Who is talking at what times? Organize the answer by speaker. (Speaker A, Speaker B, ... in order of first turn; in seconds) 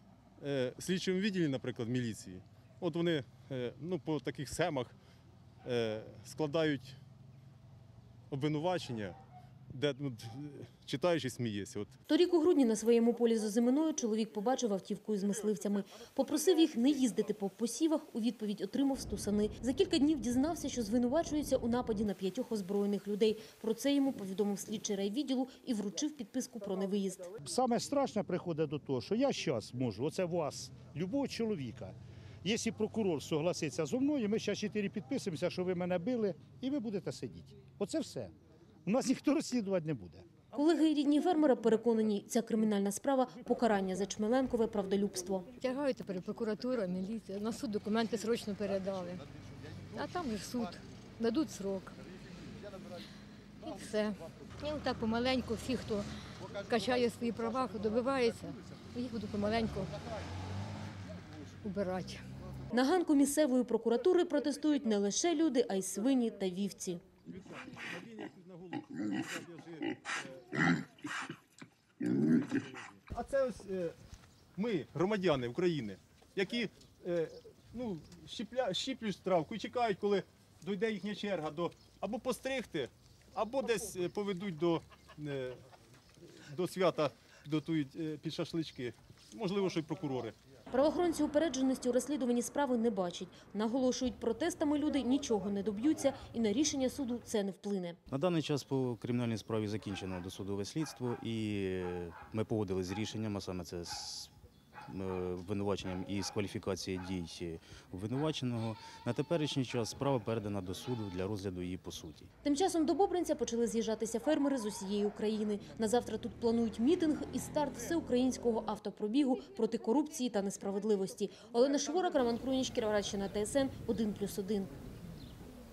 Speaker A: 0.4-5.0, 5.6-7.0, 8.3-9.2, 9.7-11.9, 67.3-70.6, 72.5-74.0, 74.6-85.6, 86.2-90.4
Speaker B: 12.1-27.3, 40.5-45.5, 62.7-67.0, 90.7-98.0, 112.4-124.7
Speaker C: 27.4-38.3, 38.9-40.3
Speaker D: 45.6-49.3, 49.9-52.0, 53.6-60.0, 61.6-62.2
Speaker E: 98.1-104.3, 104.9-112.2